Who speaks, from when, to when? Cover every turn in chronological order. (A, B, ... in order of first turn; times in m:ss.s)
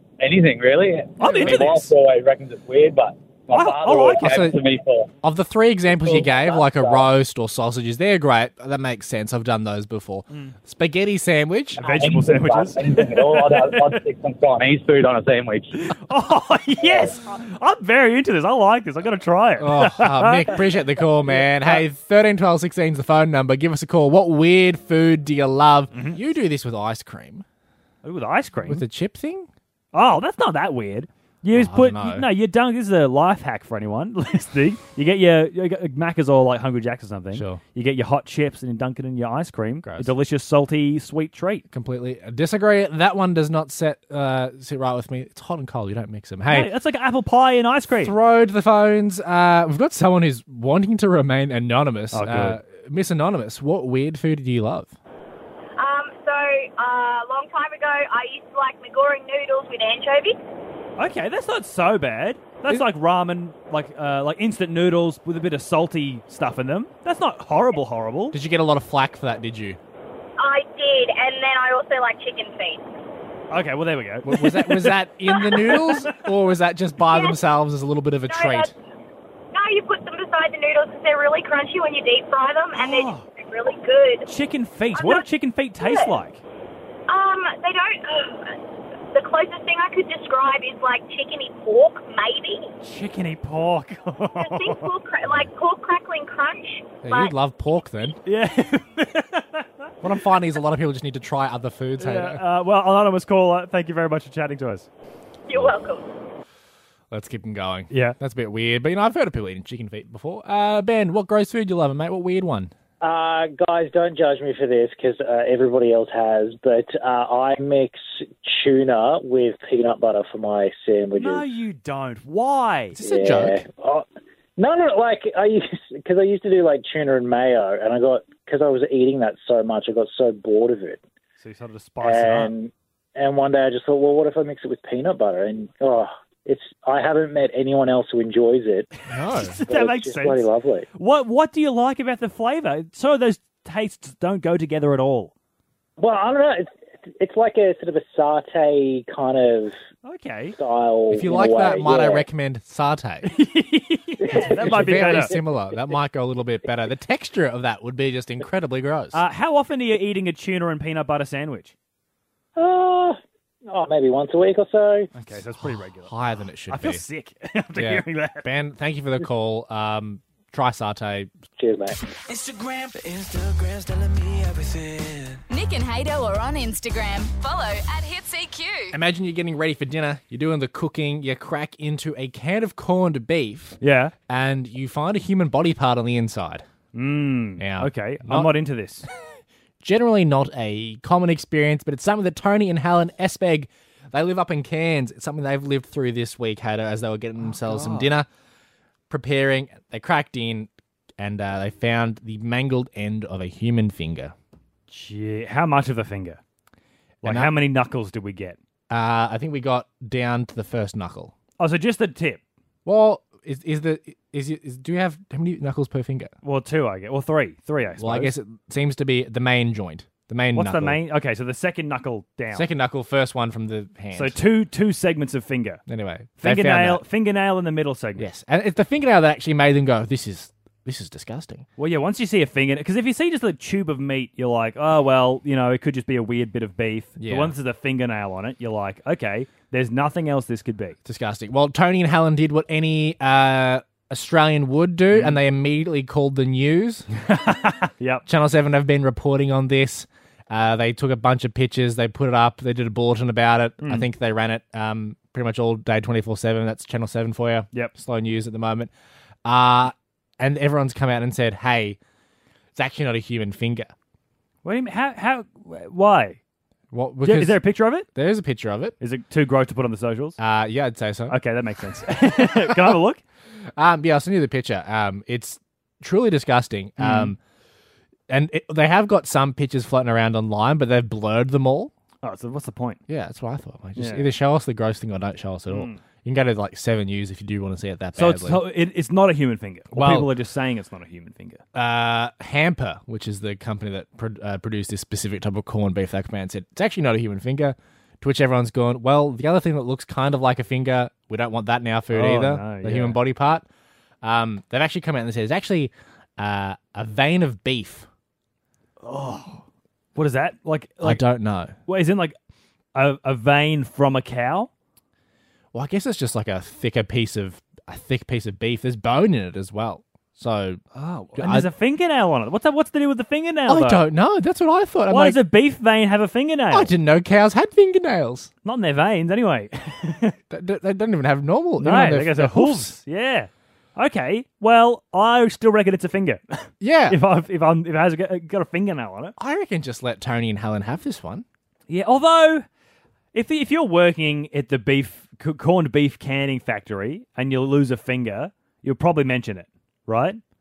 0:00.2-0:05.1 A
0:01.2-0:01.9 B
0:03.5-0:04.5 B
0:04.2-0:04.6 C
0:05.2-0:11.8 C
0:05.9-0:07.1 A
0:10.3-0:10.6 B
0:11.8-0:14.0 B
0:11.8-0:15.7 A
0:15.8-0:20.6 B
0:19.6-0:27.4 C
0:21.3-0:21.8 B
0:25.9-0:26.2 B
0:28.0-0:28.8 B
0:28.7-0:29.5 C
0:29.9-0:41.6 B
0:31.5-0:32.3 C
0:37.3-0:37.6 C
0:39.8-0:40.1 C
0:41.7-0:46.7 C
0:46.5-0:48.2 B
0:48.0-0:55.0 C
0:52.1-0:52.6 B
0:55.8-1:00.4 D
1:01.0-1:08.4 B
1:08.3-1:09.8 C
1:10.4-1:12.9 D
1:13.5-1:16.1 B
1:14.2-1:18.7 C
1:17.1-1:17.4 D
1:18.3-1:18.7 D
1:19.5-1:24.3 D
1:22.7-1:23.3 B
1:24.3-1:26.4 B
1:25.0-1:25.2 D
1:25.8-1:26.1 D
1:27.1-1:28.6 D
1:29.1-1:32.7 D
1:32.8-1:35.0 B
1:34.4-1:37.3 D
1:37.0-1:38.2 C
1:38.2-1:39.9 B
1:40.0-1:42.4 C
1:42.0-1:44.9 B
1:45.5-1:46.0 D
1:45.5-1:45.8 C
1:47.1-1:52.7 C
1:47.9-1:48.2 B
1:53.0-2:01.5 E
2:01.2-2:03.0 B
2:03.0-2:03.6 C
2:03.0-2:04.0 E
2:04.6-2:11.0 E
2:11.4-2:12.5 B
2:12.0-2:18.9 E
2:19.1-2:19.6 C
2:19.3-2:25.3 B
2:19.6-2:20.9 E
2:26.0-2:29.8 E
2:30.0-2:30.6 B
2:30.6-2:32.3 E
2:31.1-2:33.3 C
2:33.2-2:35.4 B
2:34.2-2:35.4 E
2:34.4-2:39.2 C
2:39.1-2:41.7 B
2:42.6-2:45.1 E
2:45.1-2:46.1 B
2:45.6-2:47.0 C
2:46.7-2:48.5 B
2:47.8-2:51.3 C
2:51.6-2:52.0 E
2:52.2-2:55.4 F
2:55.5-2:59.0 G
2:58.9-3:03.8 C
3:03.8-3:04.1 B
3:04.3-3:06.6 C
3:06.9-3:09.1 B
3:07.6-3:08.5 C
3:09.8-3:18.3 C
3:17.5-3:18.1 B
3:19.1-3:24.3 C
3:24.9-3:26.4 B
3:27.2-3:28.6 B
3:27.2-3:27.6 C
3:28.9-3:31.3 C
3:31.6-3:32.4 B
3:32.8-3:36.3 C
3:36.4-3:38.3 B
3:38.0-3:41.0 C
3:40.5-3:42.7 B
3:42.5-3:44.4 C
3:44.1-3:45.8 B
3:45.9-3:47.0 C
3:46.4-3:48.3 B
3:48.2-3:51.7 C
3:51.8-4:01.0 B
3:57.2-3:57.6 C
4:01.0-4:07.1 C
4:05.1-4:05.4 B
4:07.3-4:08.2 B
4:08.3-4:18.9 C
4:13.8-4:14.1 B
4:19.4-4:22.0 C
4:22.8-4:23.9 C
4:24.6-4:26.4 B
4:26.9-4:29.0 C
4:27.2-4:28.1 B
4:29.0-4:30.4 B
4:30.4-4:31.4 C
4:31.3-4:33.2 B
4:32.3-4:33.0 C
4:33.8-4:37.4 C
4:37.0-4:37.4 B
4:38.3-4:41.9 C
4:42.2-4:43.0 B
4:43.1-4:48.6 C
4:44.0-4:44.3 B
4:45.7-4:46.0 B
4:48.2-4:51.6 B
4:49.9-4:50.4 C
4:51.7-5:03.6 C
5:02.1-5:03.2 B
5:04.2-5:08.1 C
5:09.0-5:09.6 B
5:10.2-5:11.2 B
5:11.0-5:11.8 C
5:11.9-5:12.4 B
5:13.0-5:14.7 B
5:15.7-5:20.8 C
5:20.9-5:24.1 B
5:21.4-5:21.7 C
5:23.7-5:25.4 C
5:25.1-5:26.9 B
5:26.7-5:28.5 C
5:28.6-5:30.4 B
5:30.5-5:32.9 C
5:31.8-5:39.4 B
5:36.8-5:37.2 C
5:39.4-5:41.4 C
5:41.9-5:42.6 B
5:43.3-5:50.4 B